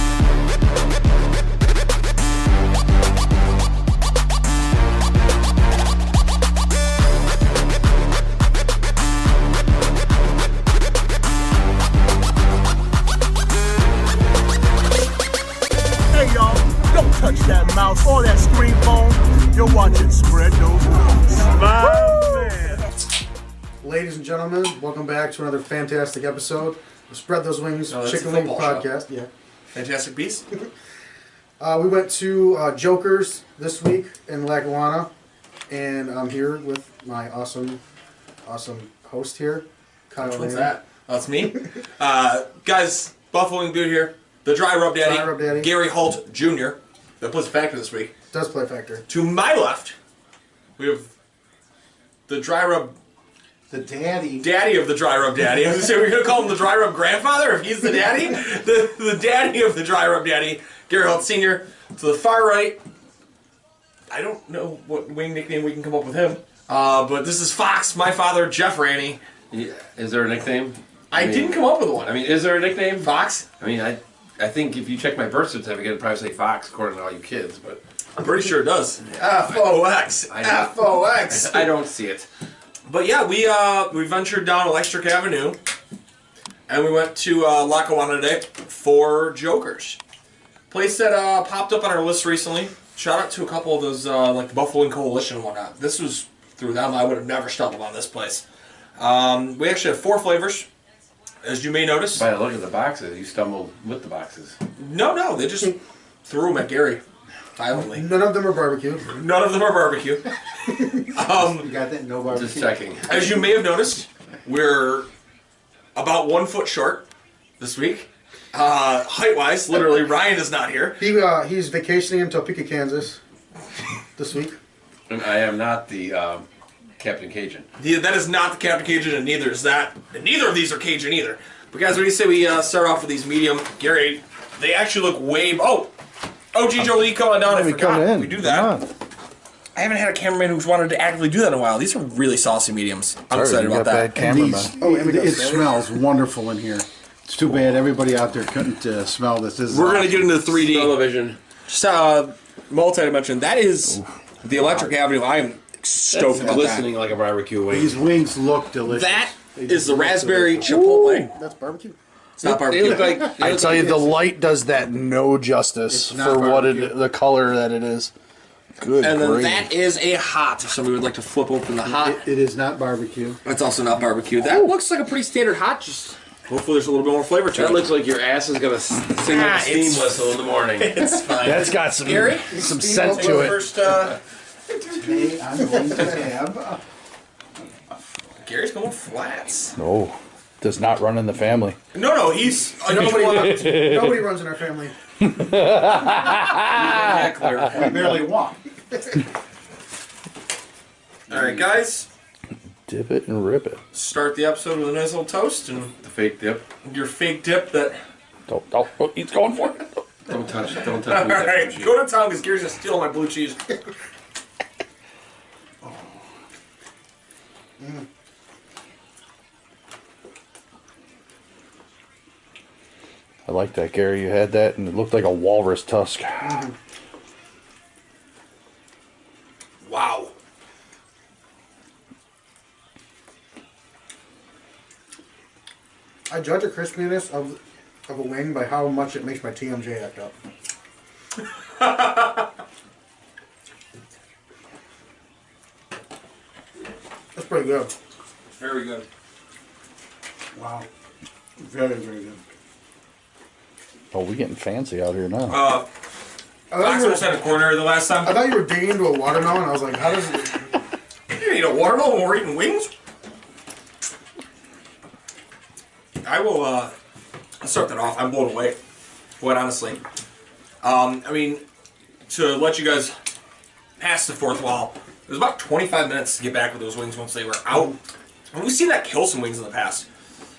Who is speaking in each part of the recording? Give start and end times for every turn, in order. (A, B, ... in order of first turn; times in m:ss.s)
0:16.1-0:22.8 A
0:21.5-0:22.8 B
0:23.8-0:29.3 C
0:27.9-0:28.9 B
0:29.7-0:30.4 B
0:31.6-0:35.1 C
0:35.7-0:37.8 C
0:38.4-0:40.7 C
0:40.2-0:48.1 B
0:45.0-0:45.7 C
0:48.3-0:49.0 C
0:49.1-0:50.0 B
0:50.8-0:51.1 B
0:52.3-0:53.0 B
0:53.7-0:54.5 D
0:54.4-1:02.8 B
1:04.1-1:09.2 B
1:09.5-1:17.8 E
1:11.1-1:12.2 B
1:13.0-1:13.5 B
1:18.2-1:21.7 B
1:19.1-1:22.3 E
1:22.9-1:25.6 B
1:26.7-1:30.0 B
1:30.7-1:38.4 B
1:39.0-1:40.7 B
1:41.4-1:42.3 B
1:42.1-1:44.6 E
1:44.8-1:47.0 B
1:47.6-1:48.1 B
1:47.8-1:49.1 C
1:49.1-1:50.3 B
1:50.9-1:51.7 B
1:51.4-1:52.8 D
1:52.3-1:53.3 E
1:53.1-1:55.1 B
1:56.0-1:57.1 B
1:57.6-2:01.0 B
2:01.0-2:03.2 C
2:04.2-2:04.6 C
2:05.1-2:06.5 E
2:07.0-2:07.7 E
2:07.8-2:15.9 B
2:16.5-2:18.8 B
2:17.4-2:18.9 F
2:19.8-2:24.1 B
2:23.3-2:24.8 F
2:24.2-2:30.6 D
2:24.8-2:25.7 C
2:29.7-2:31.0 B
2:30.6-2:31.4 E
2:31.7-2:36.9 B
2:36.2-2:36.8 D
2:36.3-2:38.0 E
2:37.7-2:40.8 D
2:38.9-2:41.3 B
2:40.6-2:41.3 F
2:41.3-2:42.0 C
2:42.4-2:43.6 B
2:42.5-2:43.9 E
2:42.5-2:48.1 F
2:42.9-2:43.6 D
2:45.9-2:47.0 D
2:48.8-2:49.7 F
2:49.0-2:52.2 B
2:51.8-2:53.4 D
2:53.4-2:57.9 B
2:54.4-2:54.7 F
2:57.5-3:01.1 E
2:59.2-3:04.2 B
3:01.4-3:03.7 F
3:02.5-3:03.5 D
3:04.9-3:05.3 B
3:04.9-3:06.8 D
3:05.8-3:06.2 C
3:08.4-3:09.7 B
3:09.8-3:11.8 F
3:11.9-3:13.9 B
3:12.9-3:14.3 F
3:13.7-3:15.0 C
3:15.2-3:18.2 F
3:16.7-3:18.0 E
3:17.7-3:18.6 D
3:21.3-3:22.1 B
3:21.3-3:21.6 E
3:22.9-3:23.8 F
3:23.9-3:25.9 B
3:26.0-3:26.6 E
3:26.8-3:28.0 B
3:28.5-3:29.9 F
3:30.3-3:31.9 E
3:31.0-3:33.7 B
3:35.8-3:36.2 D
3:37.8-3:38.0 C
3:43.5-3:46.7 F
3:46.4-3:46.7 C
3:49.8-3:50.3 B
3:56.3-4:00.3 C
4:01.8-4:02.4 B
4:07.4-4:07.9 C
4:08.6-4:09.0 B
4:10.6-4:10.9 D
4:11.6-4:12.4 D
4:14.1-4:15.6 F
4:15.5-4:15.9 B
4:16.7-4:17.5 C
4:16.8-4:18.4 B
4:18.2-4:20.7 C
4:21.3-4:22.9 B
4:26.2-4:26.9 B
4:27.6-4:28.8 B
4:29.4-4:30.0 B
4:30.8-4:31.6 B
4:32.3-4:33.2 B
4:34.0-4:38.0 B
4:38.5-4:40.1 B